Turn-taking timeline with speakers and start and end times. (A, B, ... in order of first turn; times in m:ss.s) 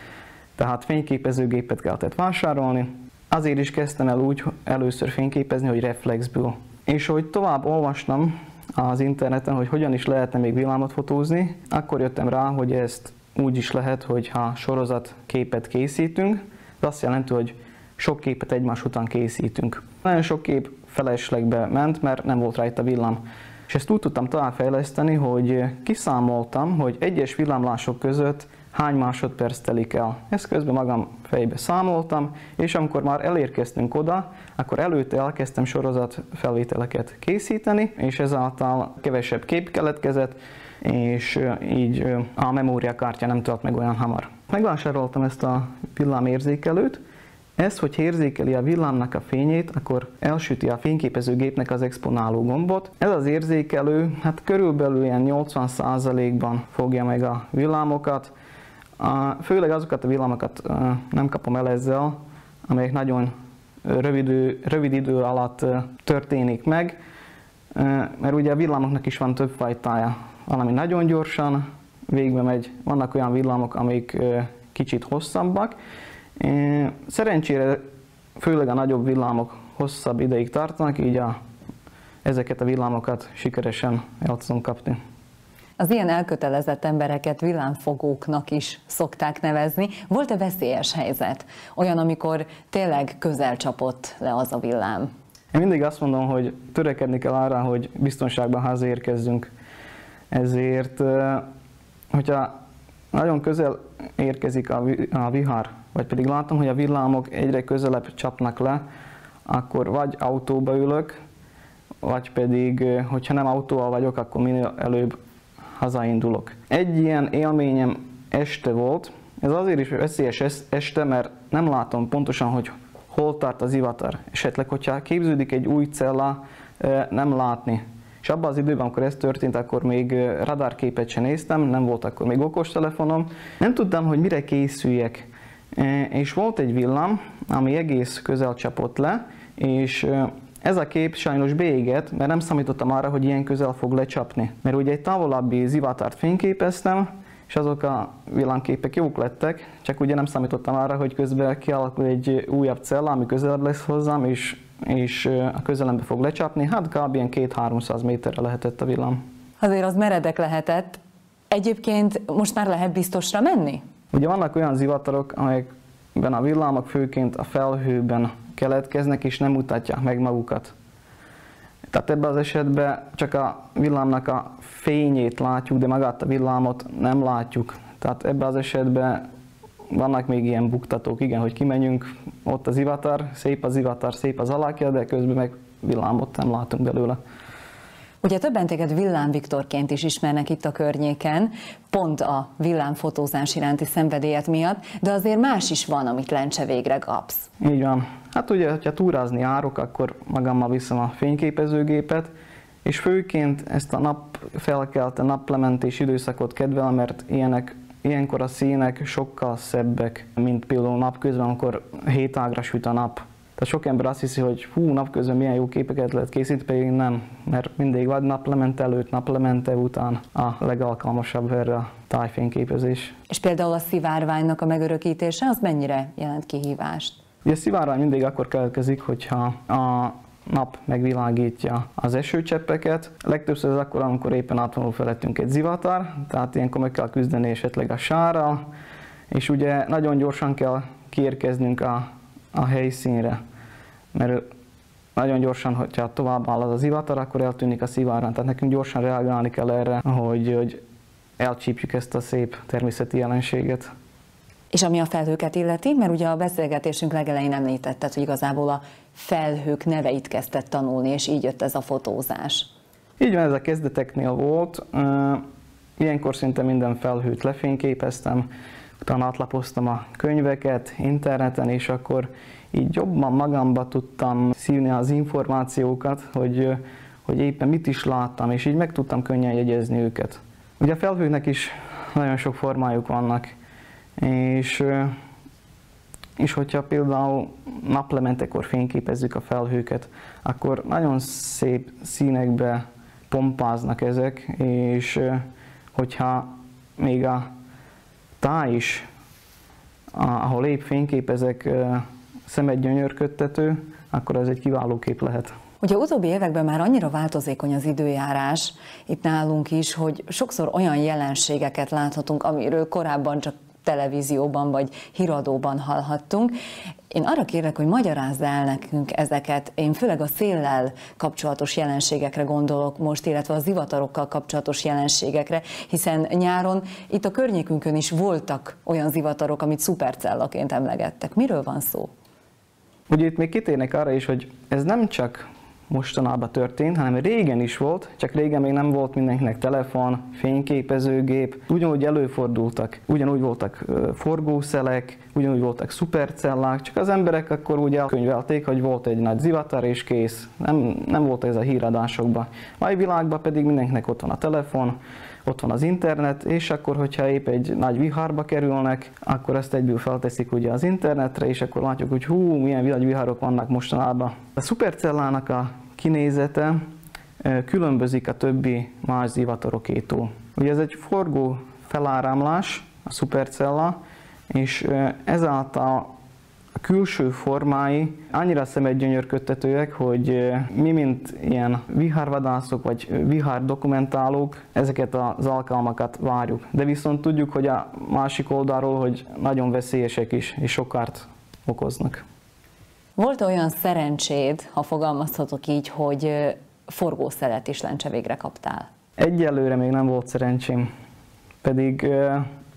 0:00.6-0:47.0 A
0:47.6-0:58.3 A
0:59.0-1:03.3 A
1:03.8-1:06.9 A
1:07.7-1:15.7 A
1:16.4-1:17.8 A
1:18.4-1:21.3 A
1:22.2-1:25.0 A
1:25.8-1:35.1 B
1:35.5-1:39.5 A
1:40.3-1:41.4 A
1:42.1-1:42.5 A
1:43.1-1:48.8 A
1:49.5-1:51.2 A
1:52.0-1:55.2 A
1:55.8-2:39.2 A
2:39.6-2:41.0 B
2:41.5-2:43.8 B
2:44.1-2:50.7 A
2:51.9-2:59.2 A
2:59.9-3:07.2 A
3:08.2-3:17.5 B
3:17.6-3:22.3 A
3:22.8-3:43.1 A
3:43.3-3:47.2 B
3:47.4-3:58.7 A
3:59.3-4:03.4 A
4:04.1-4:04.4 A
4:05.2-4:10.8 A
4:11.4-4:13.9 A
4:14.7-4:22.7 B
4:23.2-4:25.4 A
4:26.0-4:28.5 A
4:29.0-4:43.5 A
4:44.2-4:45.1 A
4:46.4-4:57.4 A
4:58.4-4:59.0 A
5:00.1-5:05.5 A
5:05.8-5:16.5 B
5:17.1-5:32.1 B
5:33.1-6:06.8 A
6:07.4-6:14.0 A
6:14.5-6:16.1 A
6:16.8-6:32.2 A
6:33.2-6:38.9 B
6:39.2-6:40.9 A
6:41.6-6:42.4 A